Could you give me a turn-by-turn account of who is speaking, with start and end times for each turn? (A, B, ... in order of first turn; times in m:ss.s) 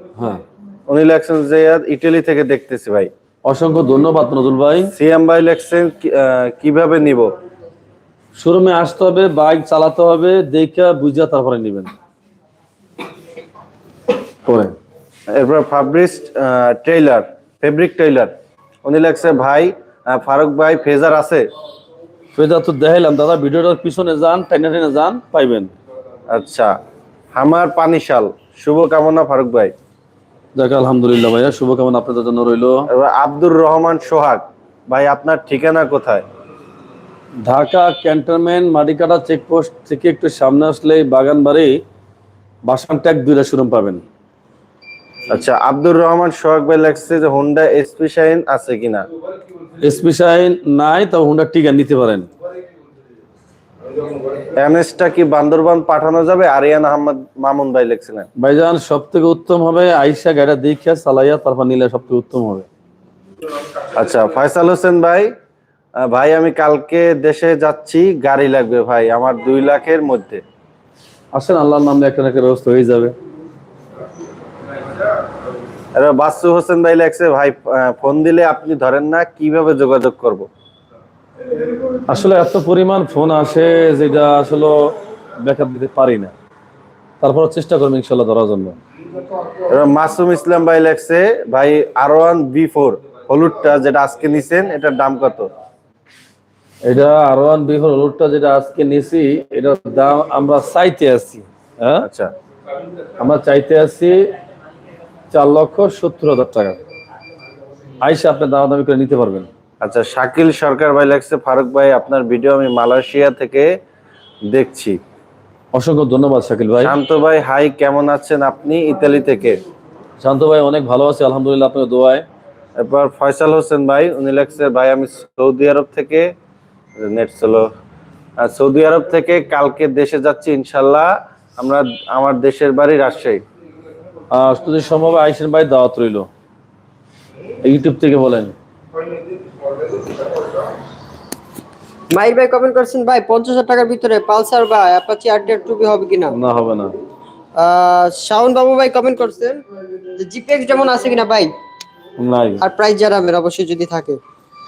0:00.2-0:00.4 A
0:00.9-0:03.1 B
0:03.4-0:04.9 A
0:04.9-0:07.3 B
0:08.4-0:11.9 A
0:14.4-0:14.7 A
0:15.3-0:18.3 B
0:18.8-0:21.4 B
0:22.3-0:25.7 A
0:26.3-0:26.7 B
0:27.3-0:29.7 B
0:30.6-0:32.9 A
0:32.9-0:36.2 B
0:37.4-0:41.8 A
0:42.6-0:44.0 A
0:45.3-0:49.0 B
0:49.8-0:52.3 A
0:54.3-0:58.3 B
0:58.4-1:02.7 A
1:03.9-1:05.3 B
1:06.0-1:10.4 B
1:11.3-1:13.1 A
1:15.9-1:20.5 B
1:21.9-1:26.3 A
1:27.2-1:28.8 A
1:29.6-1:35.5 B
1:36.8-1:42.1 A
1:42.0-1:42.3 B
1:43.2-1:44.2 A
1:45.3-1:46.8 A
1:48.0-1:49.5 A
1:49.8-1:53.7 B
1:54.4-1:55.0 B
1:55.7-1:57.0 A
1:56.8-1:59.6 B
2:00.2-2:02.2 A
2:02.8-2:06.3 B
2:07.0-2:07.7 B
2:08.4-2:13.4 B
2:14.3-2:16.3 A
2:17.6-2:18.5 A
2:22.1-2:26.3 C
2:26.3-2:26.9 A
2:27.6-2:31.5 C
2:32.2-2:32.6 A
2:32.6-2:34.2 C